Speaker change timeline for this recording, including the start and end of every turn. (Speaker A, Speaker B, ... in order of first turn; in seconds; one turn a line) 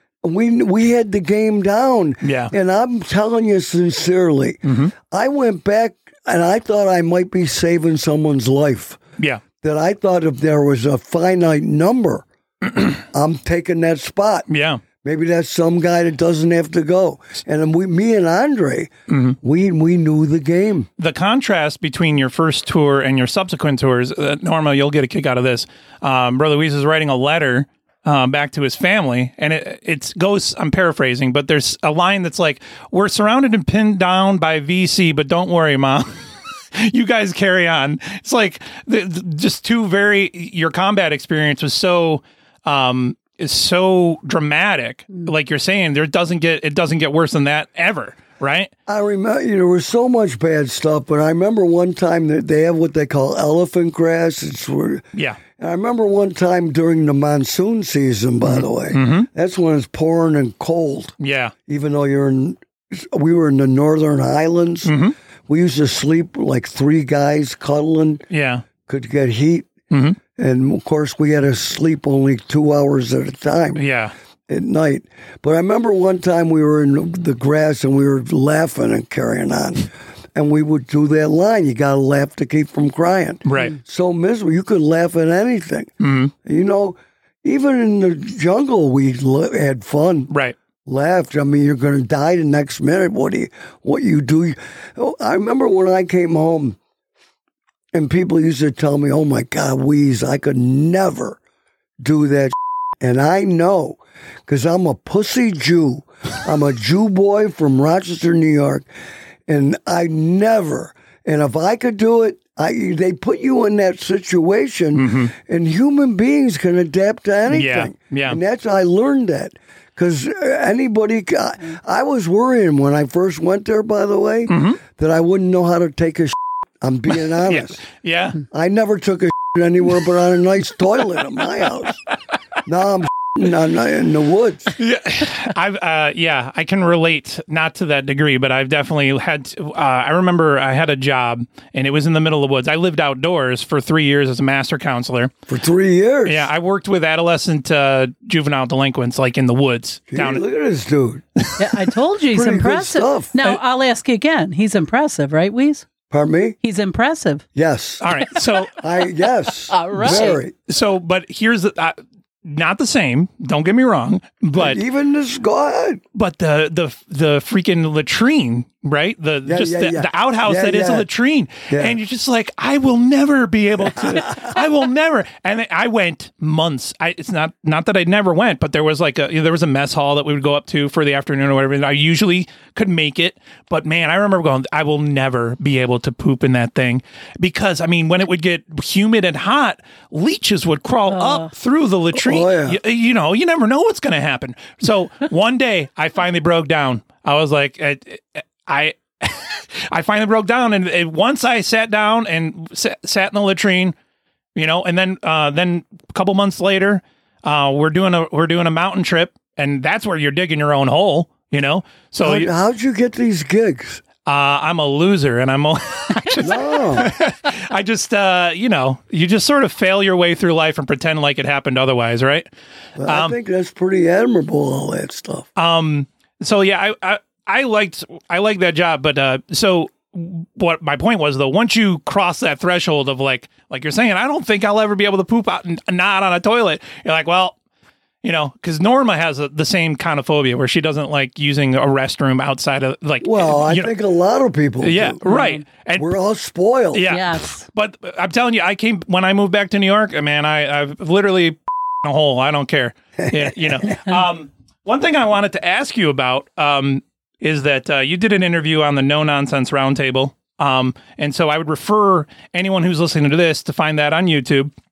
Speaker A: 0.2-9.0
Speaker B: 2.2-2.5
Speaker B: 4.6-4.9
Speaker A: 9.6-12.2
Speaker A: 13.1-14.4
Speaker B: 14.5-14.8
Speaker A: 15.0-18.9
Speaker B: 19.1-19.4
Speaker A: 19.4-20.9
Speaker B: 21.0-36.2
Speaker B: 36.7-48.7
Speaker A: 48.9-61.1
Speaker B: 55.1-55.4
Speaker B: 58.4-59.3
Speaker B: 61.2-61.5
Speaker A: 61.6-64.9
Speaker B: 64.8-65.1
Speaker A: 65.5-68.2
Speaker B: 68.3-68.6
Speaker A: 68.8-69.7
Speaker B: 69.9-70.2
Speaker A: 70.3-73.8
Speaker B: 73.8-74.1
Speaker A: 74.5-85.9
Speaker B: 83.5-83.8
Speaker B: 86.0-86.3
Speaker A: 86.4-90.3
Speaker A: 90.8-96.8
Speaker A: 97.9-101.4
Speaker A: 102.0-108.9
Speaker A: 109.5-127.8
Speaker B: 114.9-115.3
Speaker B: 117.5-118.4
Speaker B: 124.5-124.8
Speaker B: 127.4-128.4
Speaker A: 128.5-132.0
Speaker A: 132.7-134.7
Speaker B: 134.8-145.3
Speaker A: 145.5-146.4
Speaker B: 146.2-150.4
Speaker A: 150.1-151.2
Speaker C: 151.6-155.9
Speaker A: 152.3-153.3
Speaker A: 156.1-156.6
Speaker C: 156.6-157.4
Speaker A: 157.5-158.0
Speaker B: 158.0-158.8
Speaker A: 158.8-160.5
Speaker C: 159.7-160.4
Speaker B: 159.9-164.8
Speaker A: 164.5-166.0
Speaker B: 166.1-203.9
Speaker A: 169.4-171.1
Speaker A: 171.7-172.0
Speaker A: 173.9-174.3
Speaker C: 191.1-191.5
Speaker A: 192.1-192.8
Speaker B: 204.5-212.5
Speaker A: 212.2-214.0
Speaker B: 214.2-222.5
Speaker A: 216.4-217.1
Speaker A: 223.0-225.5
Speaker B: 223.1-223.3
Speaker B: 225.6-237.5
Speaker B: 238.2-243.9
Speaker A: 243.2-245.2
Speaker B: 244.8-246.1
Speaker C: 245.2-245.6
Speaker A: 246.0-247.0
Speaker B: 246.9-264.7
Speaker C: 247.1-247.6
Speaker A: 253.2-253.9